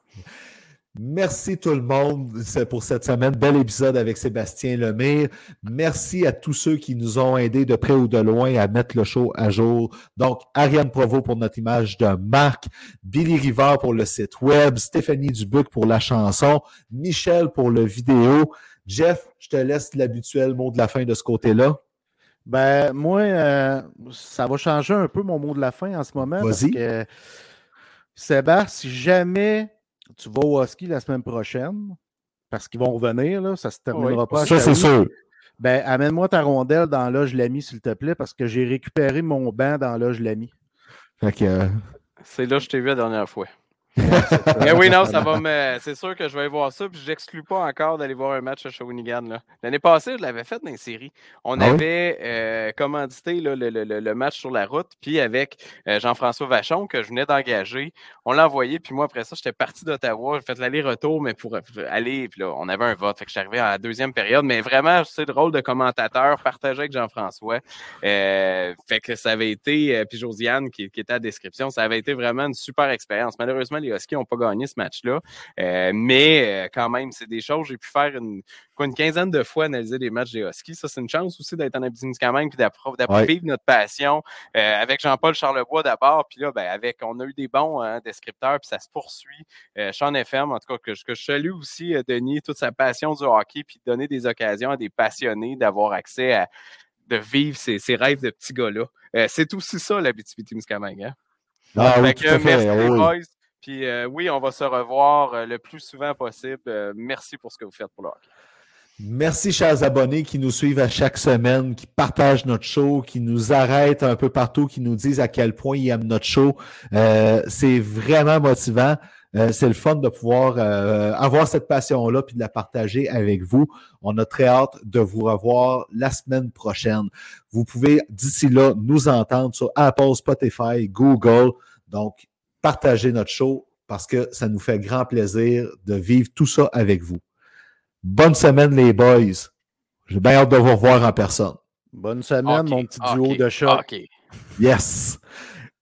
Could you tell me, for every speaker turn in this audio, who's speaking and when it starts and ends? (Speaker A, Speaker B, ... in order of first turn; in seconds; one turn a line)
Speaker A: 0.9-21.8
Speaker B: 22.4-27.1
Speaker A: 26.4-26.8
Speaker B: 28.1-31.9
Speaker B: 32.5-34.9
Speaker C: 33.9-34.6
Speaker A: 34.3-35.1
Speaker B: 35.6-40.5
Speaker A: 41.2-41.8
Speaker C: 42.2-96.5
Speaker A: 44.0-45.3
Speaker A: 51.6-51.8
Speaker C: 97.1-101.1
Speaker A: 101.7-103.1
Speaker C: 101.8-108.3
Speaker A: 109.0-137.2
Speaker A: 138.0-139.5
Speaker A: 140.1-141.6
Speaker B: 141.9-143.8
Speaker C: 142.4-144.1
Speaker A: 144.6-145.2